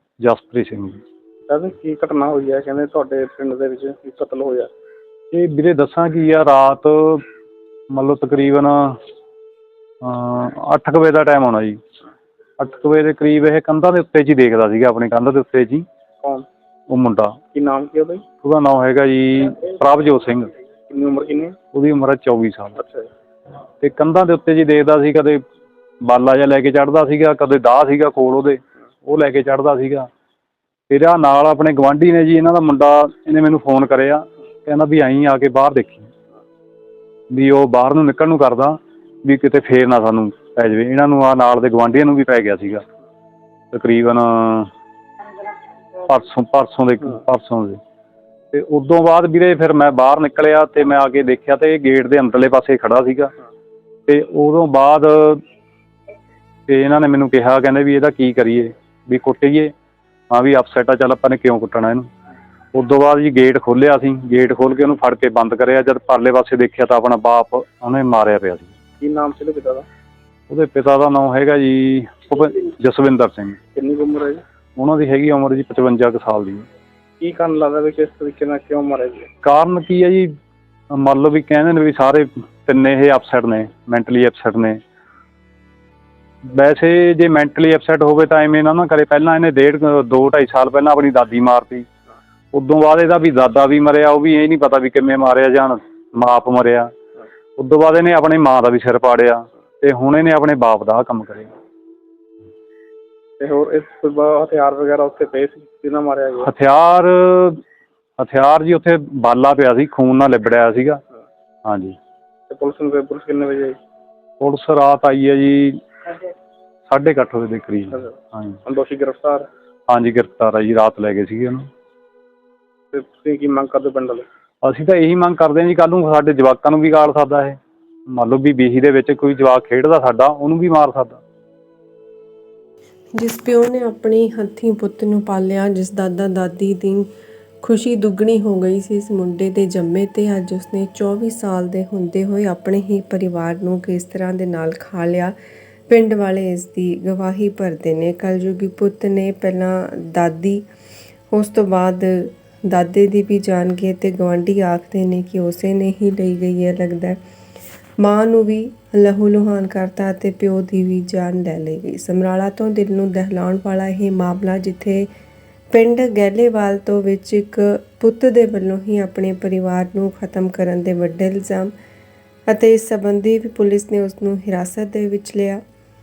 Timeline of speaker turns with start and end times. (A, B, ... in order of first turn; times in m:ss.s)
0:00.2-0:01.0 A
0:01.5-0:04.7 B
0:05.3-0:07.2 A
0:07.9-0:09.0 A
0:10.0-0:11.8 A
0:12.6-0:15.8 A
0:16.9-0:17.4 A
0:17.5-0:18.2 B
0:18.4-0:20.5 A
0:20.9-0:21.6 B
0:21.7-0:22.7 A
0:22.8-0:23.1 B
0:23.8-0:25.4 A
0:26.0-0:30.1 A
0:30.9-0:36.1 A
0:37.3-0:42.8 A
0:43.7-0:44.7 A
0:46.1-0:47.8 A
0:48.5-0:53.3 A
0:54.1-0:55.4 A
0:56.7-0:59.7 A
1:00.3-1:02.1 A
1:02.7-1:08.7 A
1:09.0-1:09.8 B
1:10.5-1:13.6 A
1:13.7-1:14.4 B
1:14.8-1:16.7 A
1:17.2-1:19.3 B
1:19.4-1:20.3 A
1:20.9-1:24.8 A
1:26.4-1:31.9 A
1:32.5-1:36.9 A
1:37.6-1:41.5 A
1:43.4-1:46.5 B
1:46.4-1:47.6 A
1:48.2-1:51.0 A
1:51.6-1:52.0 A
1:52.5-1:53.8 B
1:54.4-1:55.8 A
1:56.9-1:58.6 A
1:58.6-1:59.5 B
1:59.9-2:01.7 A
2:02.9-2:04.2 B
2:04.6-2:07.6 A
2:08.1-2:11.2 A
2:13.2-2:17.1 C
2:17.6-2:25.3 C
2:25.9-2:30.6 C
2:31.3-2:37.2 C
2:38.0-2:45.1 C
2:45.7-2:51.7 C
2:52.5-2:55.6 C